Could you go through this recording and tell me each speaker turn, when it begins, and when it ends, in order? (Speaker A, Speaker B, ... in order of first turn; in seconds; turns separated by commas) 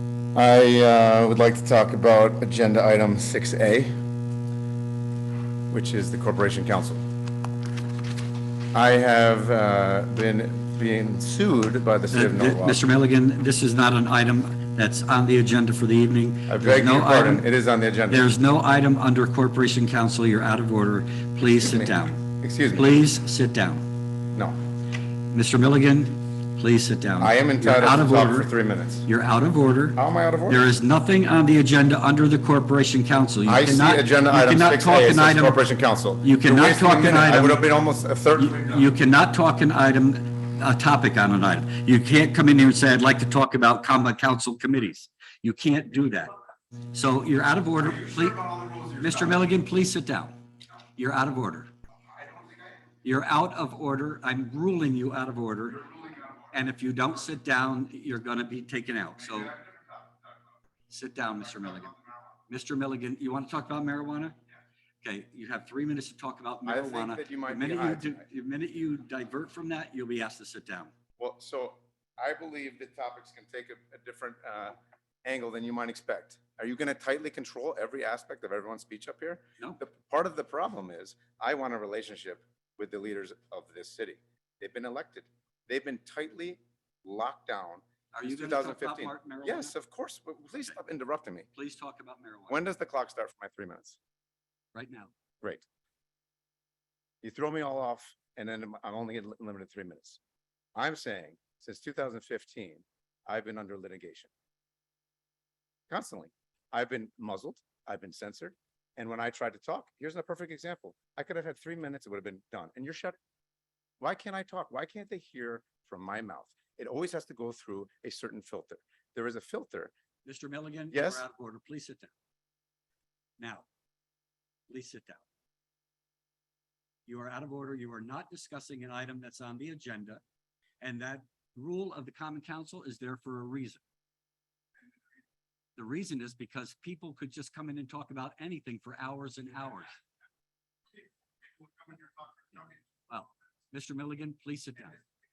Speaker A: 0.3-3.9, Speaker A: 5.7-7.0, Speaker A: 8.7-12.8, Speaker B: 12.1-17.4, Speaker A: 16.5-18.3, Speaker B: 18.1-22.2, Speaker A: 21.6-23.0, Speaker B: 22.7-23.8, Speaker B: 25.3-28.5, Speaker A: 27.2-29.1, Speaker B: 29.1-35.6, Speaker A: 29.9-30.6, Speaker A: 33.4-38.9, Speaker B: 36.2-37.6, Speaker B: 38.4-46.3, Speaker B: 46.9-48.4, Speaker A: 47.8-49.5, Speaker B: 49.0-50.4, Speaker B: 51.0-51.7, Speaker A: 52.1-52.9, Speaker B: 53.0-55.8, Speaker A: 55.7-56.6, Speaker B: 56.5-59.5, Speaker A: 59.2-60.5, Speaker B: 60.9-61.9, Speaker A: 61.4-62.4, Speaker B: 62.5-64.3, Speaker B: 65.0-70.9, Speaker A: 66.7-68.2, Speaker A: 71.2-91.5, Speaker B: 88.1-89.7, Speaker B: 91.5-92.7, Speaker A: 92.5-94.0, Speaker B: 94.7-95.1, Speaker A: 97.2-100.2, Speaker A: 100.8-104.3, Speaker A: 105.9-113.2, Speaker A: 114.0-119.9, Speaker B: 120.2-122.1, Speaker A: 120.9-121.2, Speaker B: 123.4-123.7, Speaker B: 124.7-125.2, Speaker B: 127.1-130.2, Speaker B: 130.8-133.8, Speaker B: 135.8-140.0, Speaker A: 141.6-142.8, Speaker B: 143.1-145.0